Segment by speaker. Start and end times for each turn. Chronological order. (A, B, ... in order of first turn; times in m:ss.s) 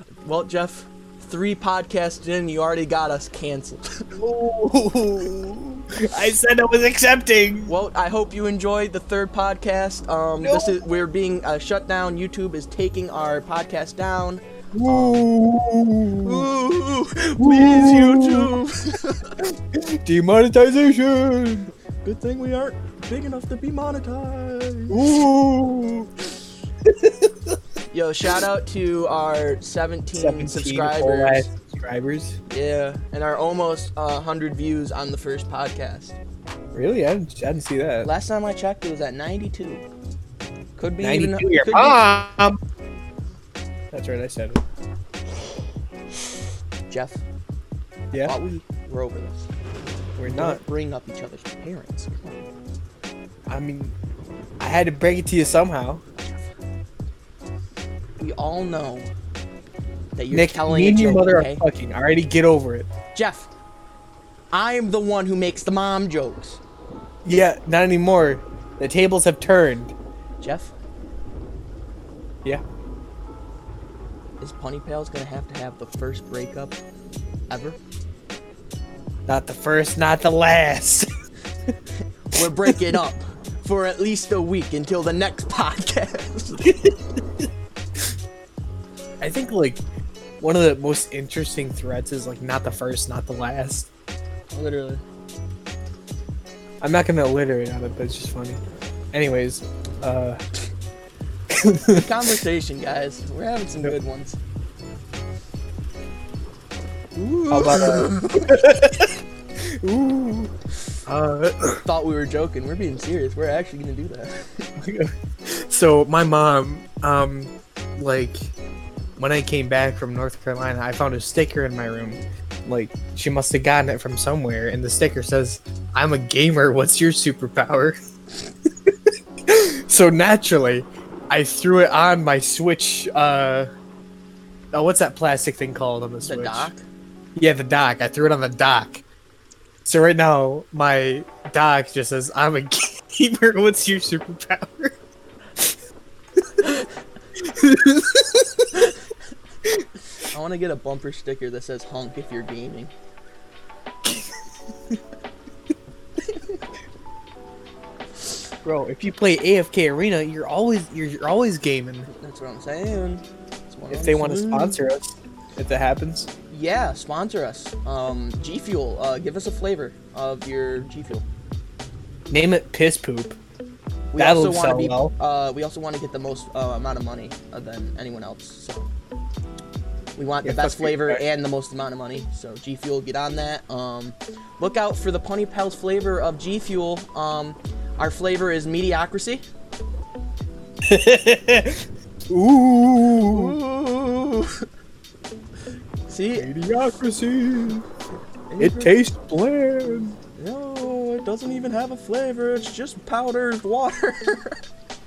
0:00.2-0:04.0 A
0:04.2-0:07.7 B
0:07.7-0:15.3 A
0:10.4-0:10.8 B
0:14.7-0:16.5 B
0:16.2-0:19.4 A
0:17.4-0:18.6 B
0:19.4-0:21.7 B
0:22.0-0:25.1 A
0:24.9-0:26.1 B
0:26.8-0:27.6 B
0:27.9-0:31.5 A
0:30.1-0:32.4 B
0:32.5-0:36.2 A
0:36.7-0:38.1 B
0:38.0-0:39.8 A
0:40.8-0:42.0 A
0:41.0-0:42.6 B
0:43.9-0:44.6 B
0:46.9-0:47.2 A
0:48.2-0:49.5 A
0:50.2-0:50.6 B
0:50.2-0:52.5 A
0:53.5-0:53.9 B
0:54.6-0:56.1 B
0:56.2-0:56.5 A
0:58.2-0:59.1 A
1:00.2-1:01.6 A
1:00.3-1:02.9 B
1:03.1-1:03.5 A
1:04.5-1:06.6 A
1:07.2-1:09.9 B
1:10.4-1:10.7 A
1:14.4-1:16.8 A
1:17.5-1:17.8 A
1:19.3-1:21.1 B
1:22.3-1:26.9 A
1:22.6-1:22.9 B
1:29.2-1:29.8 B
1:30.4-1:33.9 B
1:34.5-1:35.0 A
1:36.8-1:38.6 B
1:39.1-1:40.4 B
1:41.5-1:42.1 B
1:41.9-1:44.4 A
1:47.2-1:48.6 A
1:47.5-1:50.5 B
1:51.0-1:51.8 B
1:51.8-1:54.6 A
1:54.8-1:58.5 B
1:59.2-2:08.0 B
2:09.5-2:13.7 B
2:14.7-2:16.7 B
2:16.2-2:16.8 A
2:17.4-2:19.0 B
2:19.8-2:25.0 B
2:26.4-2:26.8 B
2:27.4-2:28.9 B
2:30.2-2:32.9 A
2:38.6-2:42.1 B
2:42.0-2:44.8 A
2:43.9-2:46.3 B
2:46.5-2:51.2 A
2:52.3-2:53.4 B
2:54.1-2:58.9 A
2:54.2-2:55.1 B
3:00.2-3:09.4 A
3:00.4-3:01.2 B
3:10.8-3:13.5 B
3:13.3-3:14.6 A
3:16.1-3:16.7 A
3:16.4-3:17.8 B
3:18.5-3:19.0 A
3:18.6-3:20.2 B
3:20.4-3:24.6 A